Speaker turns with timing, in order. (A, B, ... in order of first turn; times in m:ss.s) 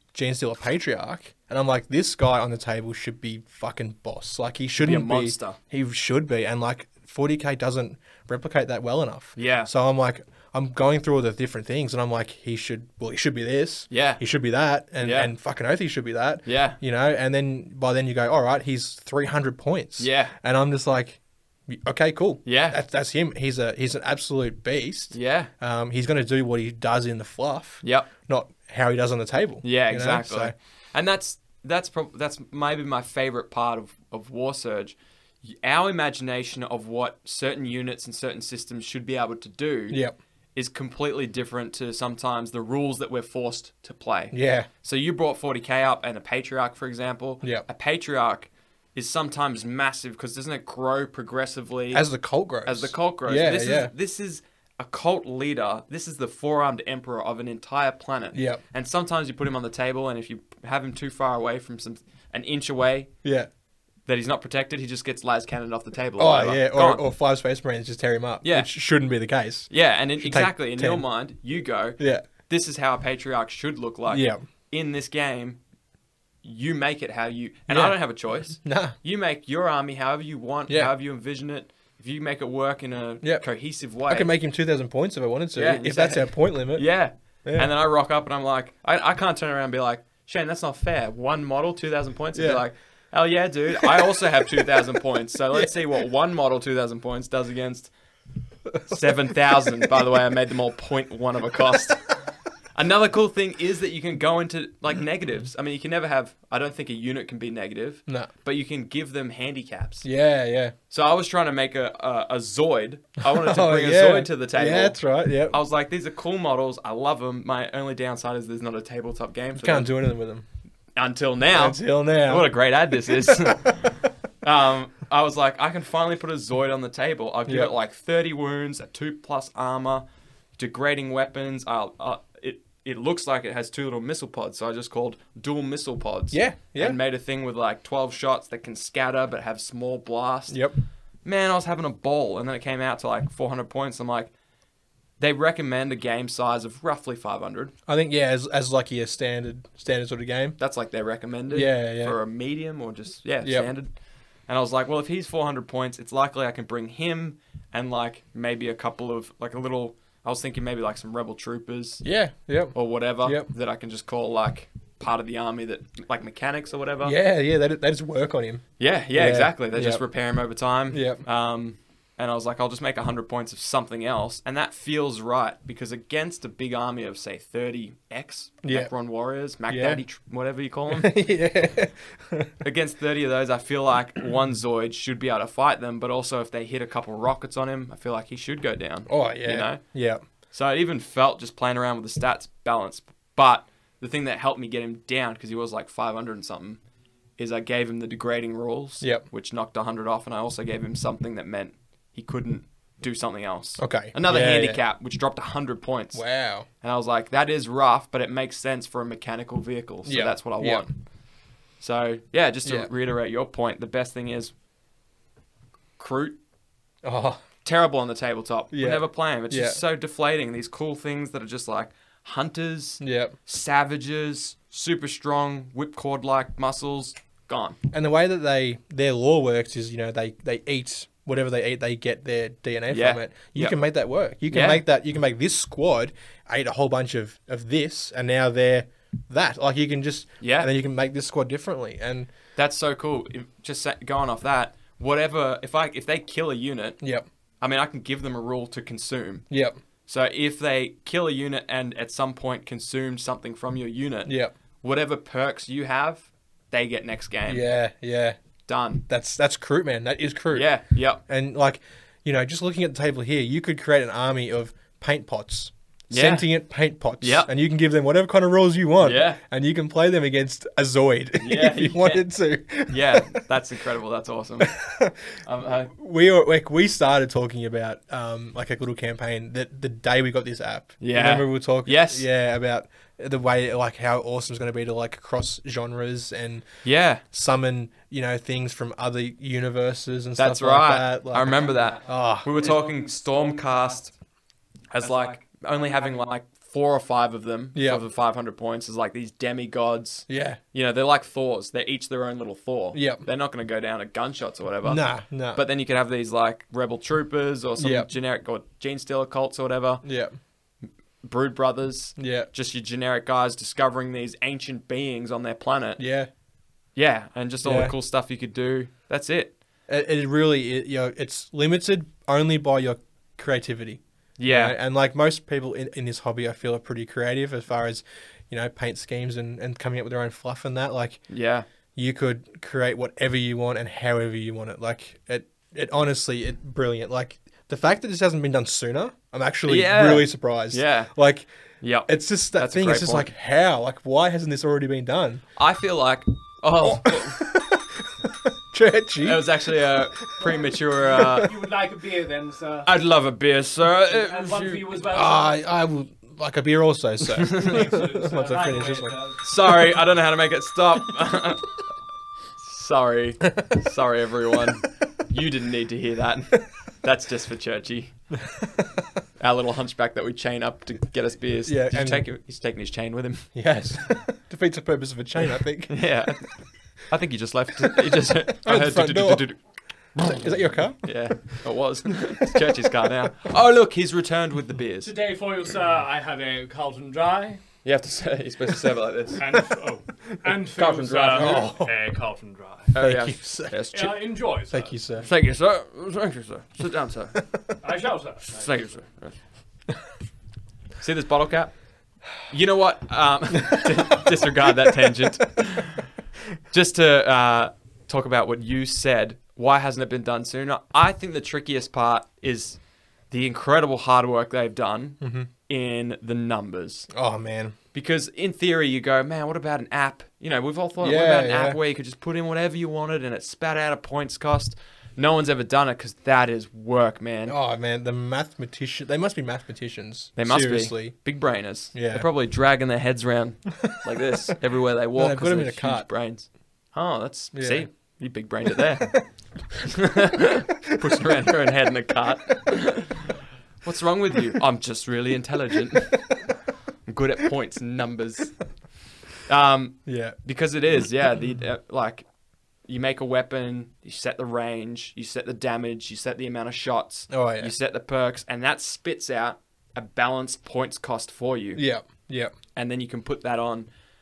0:00.1-0:30.5 A
0:04.8-0:05.6 B
0:09.4-0:09.7 B
0:13.9-0:14.2 B
0:15.0-0:15.3 B
0:16.5-0:16.8 B
0:20.0-0:20.4 B
0:22.4-0:22.8 B
0:25.1-0:25.5 B
0:27.8-0:28.1 B
0:29.6-0:40.0 B
0:39.9-0:40.2 A
0:40.5-0:52.0 B
0:44.3-0:44.7 A
0:51.9-0:53.9 A
0:52.6-1:03.1 B
0:58.3-0:58.6 A
1:03.2-1:03.5 A
1:04.0-1:07.0 B
1:06.2-1:11.0 A
1:08.4-1:08.7 B
1:09.7-1:15.6 B
1:14.1-1:14.4 A
1:16.4-1:24.3 B
1:17.7-1:18.0 A
1:18.6-1:19.0 A
1:24.1-1:26.9 A
1:25.5-1:37.9 B
1:32.3-1:32.6 A
1:33.8-1:34.1 A
1:38.9-1:42.1 B
1:42.8-1:50.1 B
1:50.0-1:50.8 A
1:50.9-1:55.0 B
1:53.3-1:55.6 A
1:55.5-1:59.9 B
1:59.6-2:00.5 A
2:01.0-2:10.0 B
2:01.5-2:04.1 A
2:10.6-2:20.6 B
2:16.3-2:17.0 A
2:20.5-2:20.8 A
2:21.2-2:24.3 B
2:25.2-2:27.7 B
2:27.9-2:30.6 A
2:30.6-2:33.9 B
2:31.5-2:32.2 A
2:33.4-2:33.7 A
2:34.5-2:42.0 B
2:42.0-2:43.5 A
2:42.7-2:47.2 B
2:47.0-2:48.6 A
2:48.8-3:01.1 B
2:49.1-2:50.0 A
2:50.9-2:51.2 A
2:58.6-2:58.9 A
2:59.7-3:00.0 A
3:00.9-3:02.5 A
3:02.6-3:09.8 B
3:09.1-3:10.2 A
3:10.5-3:16.8 B
3:17.4-3:26.2 B
3:23.8-3:24.8 A
3:26.1-3:26.7 A
3:26.8-3:31.0 B
3:30.0-3:30.8 A
3:31.8-3:34.5 B
3:32.6-3:32.9 A
3:36.0-3:36.4 B
3:37.0-3:37.4 A
3:37.6-3:47.8 B
3:38.7-3:39.8 A
3:43.0-3:43.3 A
3:47.9-4:02.3 A
3:52.9-3:53.8 B
3:54.5-3:54.8 B
4:00.4-4:00.7 B
4:02.6-4:07.0 B
4:07.6-4:09.4 B
4:09.5-4:09.8 A
4:10.1-4:17.6 B
4:14.2-4:14.5 A
4:17.5-4:18.4 A
4:18.7-4:19.0 B
4:19.1-4:20.7 A
4:20.5-4:21.2 B
4:21.3-4:33.4 A
4:26.1-4:26.5 B
4:27.2-4:27.5 B
4:29.0-4:29.4 B
4:31.4-4:32.3 B
4:32.9-4:34.7 B
4:34.6-4:35.4 A
4:35.4-4:35.9 B
4:35.9-4:46.7 A
4:41.0-4:42.2 B
4:46.8-4:47.2 B
4:47.2-4:52.5 A
4:50.4-4:54.1 B
4:54.9-5:05.0 B
4:57.8-4:58.0 A
5:00.3-5:00.6 A
5:02.9-5:03.2 A
5:04.8-5:05.6 A
5:05.5-5:10.0 B
5:07.8-5:08.1 A
5:10.0-5:10.3 A
5:11.2-5:16.0 B
5:12.2-5:12.5 A
5:16.0-5:16.3 A
5:17.0-5:19.6 B
5:17.6-5:18.0 A
5:19.9-5:31.2 A
5:24.4-5:24.8 B
5:31.3-5:31.7 B
5:32.0-5:41.5 A
5:39.7-5:41.1 B
5:41.8-5:43.3 B
5:42.0-5:45.4 A
5:45.6-5:47.5 B
5:47.0-5:50.5 A
5:49.2-5:51.5 B
5:51.1-5:51.5 A
5:51.3-5:52.9 C
5:52.8-5:54.9 B
5:54.1-5:55.6 C
5:55.1-5:59.2 A
5:57.4-5:58.0 B
5:57.5-6:00.0 C
5:59.4-6:01.8 B
6:02.6-6:08.2 B
6:08.5-6:08.9 A
6:09.4-6:13.5 B
6:11.7-6:12.2 A
6:13.5-6:16.0 A
6:15.9-6:19.6 B
6:18.6-6:19.5 A
6:20.2-6:25.1 B
6:20.2-6:21.6 A
6:25.0-6:27.6 C
6:27.8-6:29.4 B
6:29.4-6:32.9 C
6:30.8-6:31.7 B
6:31.3-6:31.9 A
6:32.9-6:34.2 B
6:33.0-6:33.8 A
6:33.9-6:35.0 C
6:34.7-6:35.3 A
6:35.2-6:37.4 B
6:37.8-6:39.0 C
6:38.6-6:39.3 B
6:41.0-6:41.8 B
6:42.4-6:46.1 B
6:46.7-6:52.8 B
6:53.3-6:57.1 B
6:55.2-6:55.5 A
6:57.1-6:57.8 A
6:57.9-7:07.6 B
7:01.0-7:01.8 A
7:07.5-7:11.3 A
7:10.4-7:19.2 B
7:11.9-7:12.3 A
7:15.2-7:16.1 A
7:17.5-7:17.9 A
7:19.8-7:26.3 B
7:27.1-7:28.6 B
7:29.4-7:32.2 B
7:30.0-7:30.4 A
7:32.9-7:41.8 B
7:37.3-7:37.7 A
7:41.8-7:42.5 A
7:42.8-7:43.9 B